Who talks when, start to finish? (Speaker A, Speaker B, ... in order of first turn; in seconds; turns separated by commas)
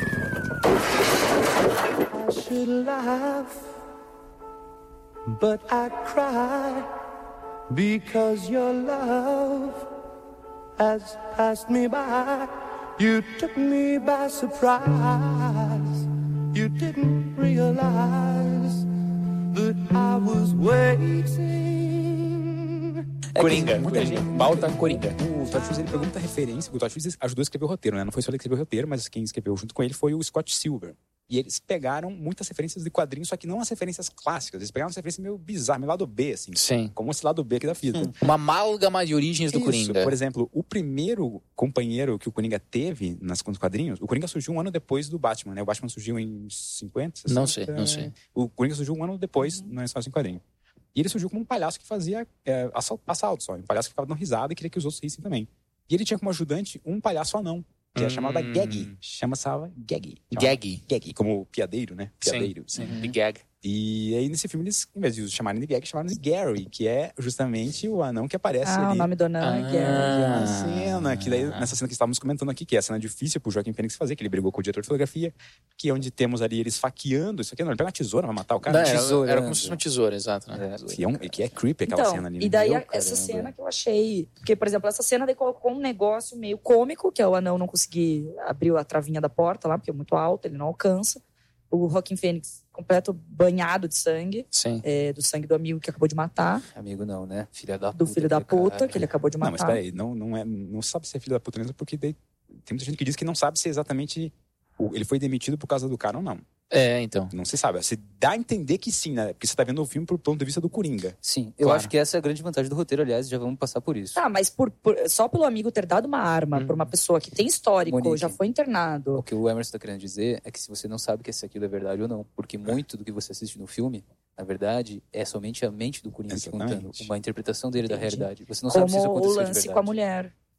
Speaker A: 2.1-3.5, Speaker A: 5.4-6.9, Speaker A: 7.7-9.8, Speaker A: 10.8-18.9, Speaker A: 19.5-22.7, Speaker B: 23.3-25.2, Speaker C: 23.4-38.1, Speaker B: 36.5-36.9, Speaker B: 38.2-40.1, Speaker C: 39.5-50.4, Speaker B: 47.3-48.1, Speaker D: 49.4-49.7, Speaker C: 50.9-63.0, Speaker B: 58.0-58.9, Speaker B: 60.3-60.8, Speaker B: 62.2-63.4, Speaker E: 62.8-63.1, Speaker C: 63.6-69.1, Speaker D: 68.6-70.5, Speaker B: 69.4-71.7, Speaker C: 69.8-79.1, Speaker B: 78.7-80.7, Speaker E: 78.7-79.8, Speaker E: 80.5-81.0, Speaker C: 80.9-82.9, Speaker D: 81.8-96.6, Speaker E: 82.8-83.5, Speaker B: 94.5-94.8, Speaker E: 96.7-99.1, Speaker D: 97.9-99.8, Speaker C: 99.4-106.4, Speaker B: 106.7-107.3, Speaker C: 107.3-111.2, Speaker E: 111.2-114.2, Speaker B: 111.6-111.9, Speaker D: 114.1-119.2, Speaker B: 116.5-116.9, Speaker E: 117.8-118.3, Speaker E: 119.2-129.9, Speaker C: 126.3-127.1, Speaker D: 127.8-130.3